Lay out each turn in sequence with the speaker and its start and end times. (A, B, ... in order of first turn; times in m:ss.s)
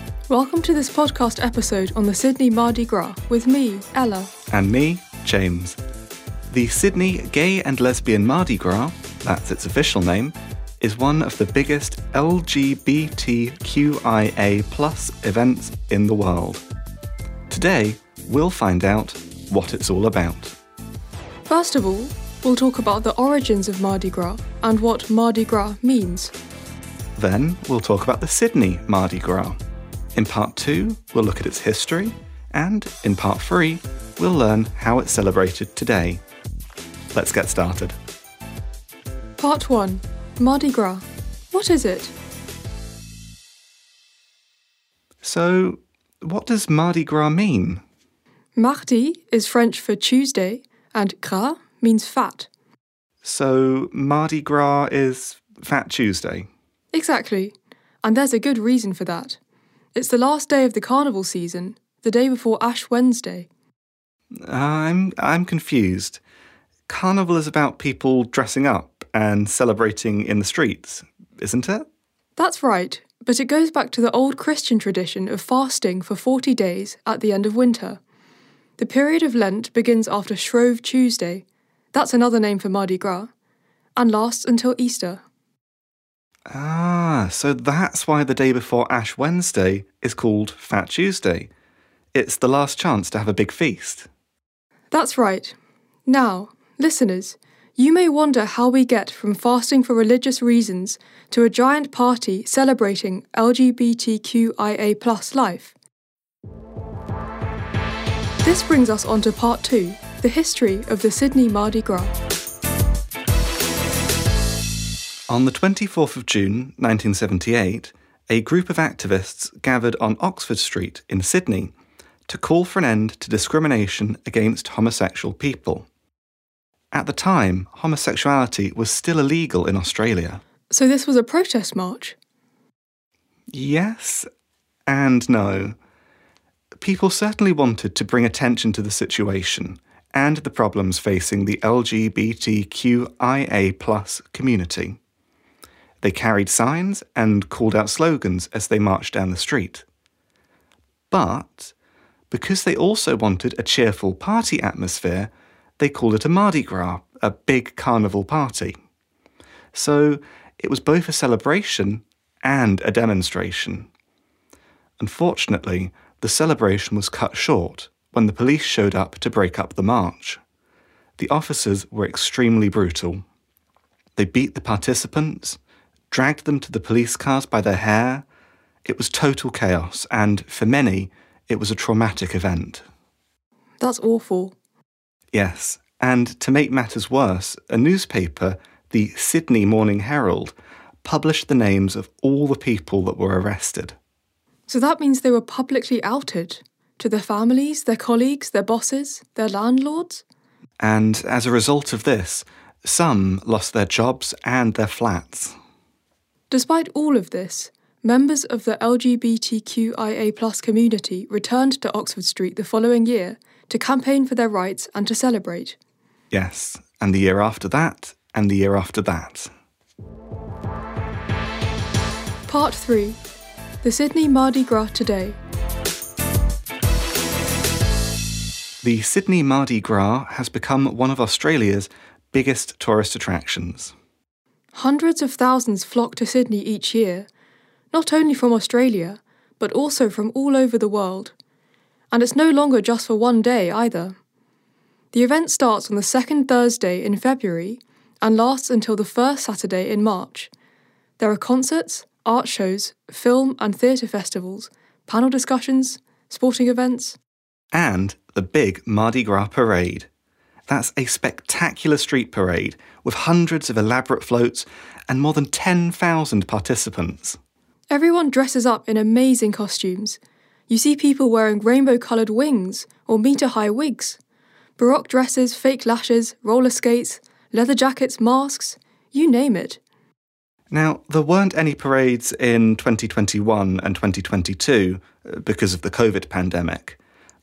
0:00.3-0:04.3 A
0:04.5-0:05.8 B
0:06.5-0:16.6 B
0:17.5-0:20.6 B
0:21.5-0:26.3 A
0:27.2-0:29.6 B
0:30.2-0:36.2 B
0:37.1-0:38.0 B
0:39.4-0:42.1 A
0:45.2-0:47.8 B
0:48.6-0:52.5 A
0:53.2-0:56.5 B
0:56.9-0:59.4 A
0:59.9-1:03.5 A
1:04.4-1:06.2 B
1:06.9-1:11.8 B
1:12.4-1:18.0 A
1:18.8-1:23.3 A
1:24.0-1:25.2 A
1:26.5-1:31.5 B
1:32.1-1:34.1 B
1:34.9-1:35.6 A
1:36.1-1:45.7 A
1:48.4-1:52.1 A
1:55.3-2:01.7 B
2:02.3-2:05.9 B
2:06.9-2:10.4 B
2:10.7-2:12.2 A
2:13.5-2:14.3 B
2:14.9-2:15.8 B
2:16.8-2:25.0 B
2:26.0-2:29.8 B
2:31.1-2:31.7 B
2:32.3-2:38.8 B
2:39.7-2:43.9 B
2:45.0-2:50.4 B
2:51.2-2:53.2 B
2:54.2-2:55.6 B
2:56.1-2:58.2 B
2:58.8-3:02.8 B
3:03.8-3:04.5 A
3:05.3-3:14.0 B
3:14.7-3:20.2 A
3:20.8-3:25.6 B
3:26.5-3:35.8 A
3:36.3-3:39.5 B
3:42.5-3:43.2 A
3:43.8-3:45.4 A
3:48.8-3:53.9 B
3:54.7-3:57.3 A
3:57.9-4:01.3 A
4:02.1-4:04.1 A
4:05.1-4:10.5 A
4:11.2-4:17.2 A
4:17.7-4:20.1 B
4:20.7-4:27.4 B
4:27.9-4:34.2 A
4:34.8-4:39.8 A
4:40.7-4:47.0 B